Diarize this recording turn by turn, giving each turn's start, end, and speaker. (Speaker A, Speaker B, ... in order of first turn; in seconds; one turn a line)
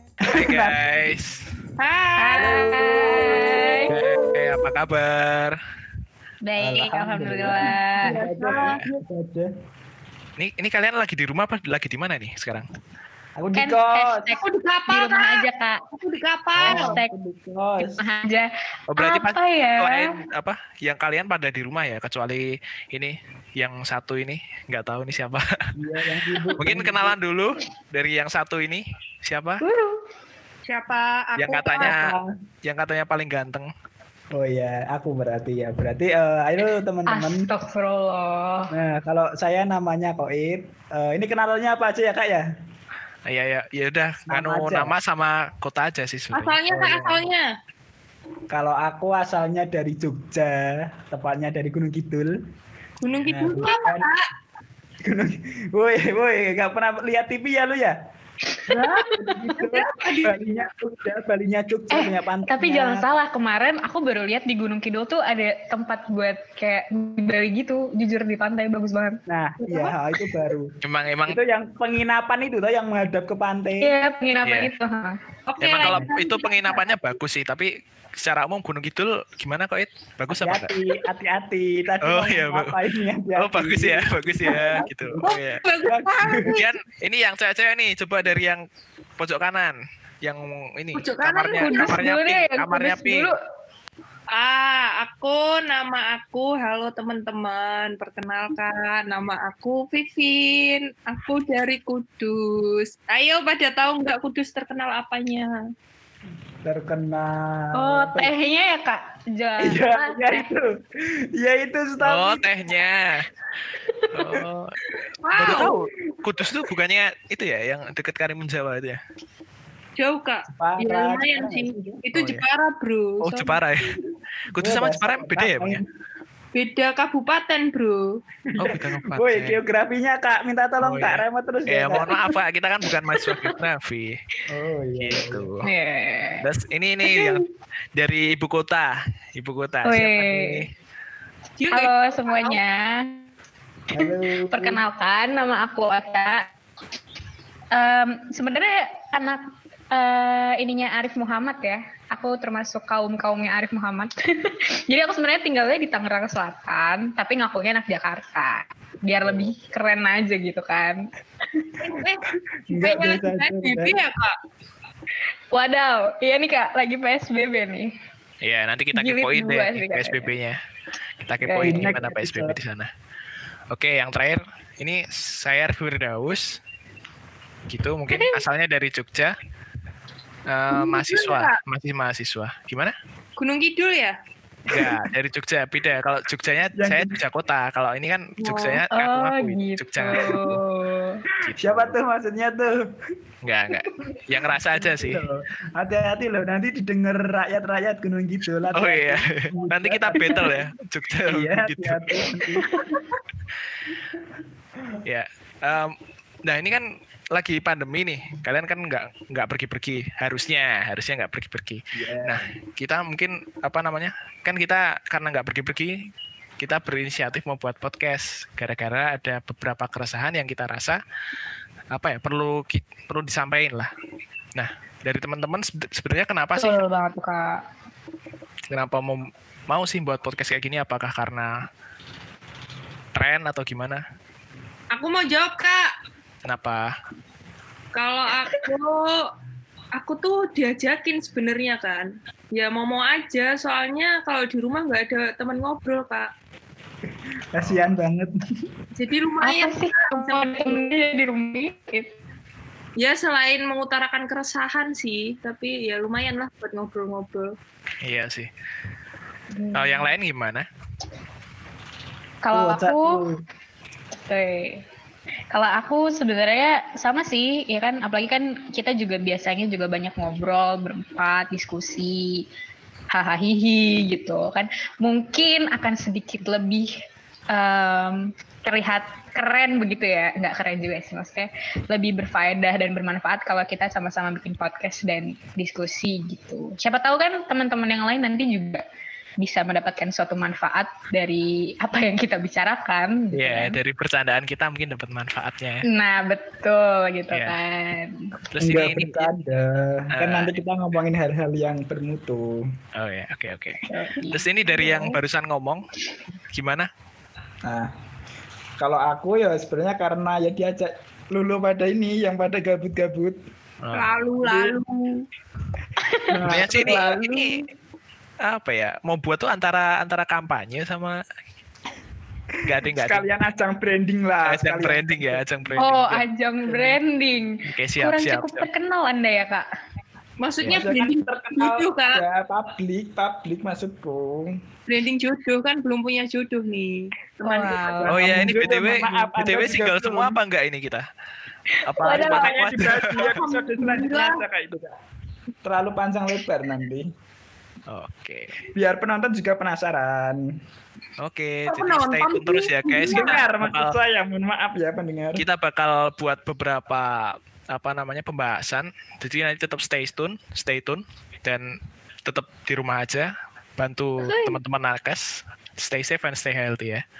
Speaker A: 0.2-0.9
Speaker B: 0.3-1.4
Speaker C: 1.8-4.5
Speaker D: 2.2-4.0
Speaker B: 3.9-5.5
Speaker D: 6.4-8.2
Speaker A: 6.6-9.5
Speaker C: 8.0-8.8
Speaker B: 8.5-8.8
Speaker B: 10.4-12.7
Speaker A: 13.4-14.3
Speaker D: 13.5-15.8
Speaker C: 14.4-15.4
Speaker C: 15.9-17.0
Speaker A: 16.5-18.0
Speaker D: 16.6-17.1
Speaker D: 17.8-20.1
Speaker B: 18.9-25.5
Speaker A: 25.8-27.2
Speaker D: 26.4-26.6
Speaker B: 26.6-29.6
Speaker D: 29.6-30.0
Speaker C: 30.6-32.2
Speaker B: 31.4-32.1
Speaker B: 32.6-33.7
Speaker A: 34.3-37.5
Speaker D: 37.0-38.7
Speaker A: 38.7-42.5
Speaker B: 43.2-47.2
Speaker A: 44.3-44.9
Speaker C: 46.3-47.4
Speaker A: 48.5-52.3
Speaker C: 53.0-54.2
Speaker A: 53.3-54.1
Speaker A: 55.0-58.0
Speaker C: 58.7-60.4
Speaker A: 59.2-63.1
Speaker D: 59.2-59.6
Speaker D: 61.9-69.2
Speaker A: 69.3-70.7
Speaker B: 70.8-71.4
Speaker A: 71.2-73.9
Speaker D: 73.8-75.2
Speaker B: 74.4-74.7
Speaker C: 75.5-76.8
Speaker B: 75.6-80.7
Speaker A: 80.3-85.3
Speaker B: 82.0-82.8
Speaker B: 83.3-85.6
Speaker C: 85.2-86.6
Speaker A: 85.9-86.6
Speaker B: 86.5-88.6
Speaker B: 89.2-93.3
Speaker C: 90.9-92.0
Speaker D: 91.6-93.3
Speaker C: 94.3-105.6
Speaker A: 106.6-108.3
Speaker D: 107.8-110.5
Speaker A: 109.6-112.5
Speaker B: 112.0-113.2
Speaker D: 113.8-114.3
Speaker B: 114.2-114.7
Speaker C: 115.2-115.8
Speaker B: 115.3-119.0
Speaker C: 120.0-123.6
Speaker A: 120.5-122.0
Speaker B: 122.1-122.4
Speaker B: 123.2-124.0
Speaker B: 124.5-125.8
Speaker A: 124.6-125.8
Speaker C: 126.5-128.2
Speaker A: 128.6-132.3
Speaker B: 128.6-129.6
Speaker B: 130.8-134.2
Speaker D: 133.2-133.5
Speaker A: 134.5-135.5
Speaker B: 135.0-135.6
Speaker D: 135.6-136.4
Speaker B: 136.4-137.4
Speaker D: 137.0-137.4
Speaker B: 137.9-140.7
Speaker D: 139.8-140.6
Speaker C: 141.6-142.6
Speaker D: 141.7-143.2
Speaker A: 143.9-144.8
Speaker D: 143.9-146.5
Speaker D: 147.7-161.0
Speaker A: 159.2-159.5
Speaker C: 161.8-164.3
Speaker A: 162.7-163.9
Speaker D: 165.5-167.9
Speaker B: 168.4-170.6
Speaker D: 168.9-170.3
Speaker B: 171.2-172.9
Speaker D: 171.4-172.0
Speaker A: 171.6-172.6
Speaker B: 173.7-176.6
Speaker B: 177.7-179.3
Speaker D: 178.1-178.4
Speaker B: 180.5-182.9
Speaker C: 180.7-181.6
Speaker C: 183.4-184.2
Speaker B: 184.7-190.6
Speaker A: 186.8-187.1
Speaker C: 188.4-188.8
Speaker D: 188.9-191.2
Speaker B: 191.4-192.0
Speaker A: 191.6-192.8
Speaker B: 193.4-195.2
Speaker A: 194.1-200.7
Speaker B: 198.7-202.4
Speaker A: 201.3-202.8
Speaker D: 202.6-203.0
Speaker B: 205.0-215.9
Speaker A: 211.9-212.4
Speaker B: 216.6-221.0
Speaker B: 221.9-223.9
Speaker B: 224.5-226.8
Speaker D: 226.6-227.6
Speaker B: 228.7-231.5
Speaker B: 233.1-234.0
Speaker C: 234.9-235.9
Speaker B: 236.4-236.9
Speaker C: 237.9-239.1
Speaker C: 239.9-246.3
Speaker A: 247.5-248.3
Speaker B: 247.6-247.9
Speaker C: 248.9-250.8
Speaker D: 249.4-252.1
Speaker C: 253.0-257.5
Speaker B: 258.0-258.5
Speaker D: 259.5-260.1
Speaker B: 259.7-260.6
Speaker D: 262.4-263.2
Speaker A: 262.5-263.4
Speaker D: 264.2-264.8
Speaker D: 265.5-272.4
Speaker D: 273.1-276.9
Speaker D: 277.5-288.8
Speaker D: 289.4-293.8
Speaker B: 293.3-295.8
Speaker D: 295.9-298.2
Speaker B: 297.3-297.6
Speaker B: 298.5-299.3
Speaker A: 298.6-302.6
Speaker B: 300.1-300.5
Speaker B: 302.9-305.8
Speaker D: 303.9-304.4
Speaker C: 304.6-305.1
Speaker B: 306.5-306.9
Speaker A: 307.6-307.9
Speaker A: 308.8-313.4
Speaker B: 313.8-314.1
Speaker C: 313.9-315.2
Speaker A: 314.4-314.8
Speaker D: 316.0-316.6
Speaker A: 316.3-317.6
Speaker B: 316.4-317.5
Speaker B: 318.4-321.2
Speaker B: 322.6-323.2
Speaker A: 322.8-325.4
Speaker B: 324.4-326.9
Speaker D: 325.8-329.6
Speaker B: 327.7-328.7
Speaker C: 330.4-332.2
Speaker A: 330.6-334.6
Speaker C: 334.9-338.1
Speaker D: 337.4-338.6
Speaker A: 338.0-340.4
Speaker B: 338.1-341.1
Speaker D: 341.8-342.6
Speaker B: 341.8-343.3
Speaker A: 342.0-344.9
Speaker C: 343.1-344.4
Speaker A: 345.6-347.1
Speaker B: 347.9-348.6
Speaker A: 348.7-350.4
Speaker B: 351.2-353.9
Speaker C: 351.6-353.4
Speaker A: 353.0-355.4
Speaker B: 355.4-361.6
Speaker B: 362.2-367.0
Speaker D: 364.2-364.6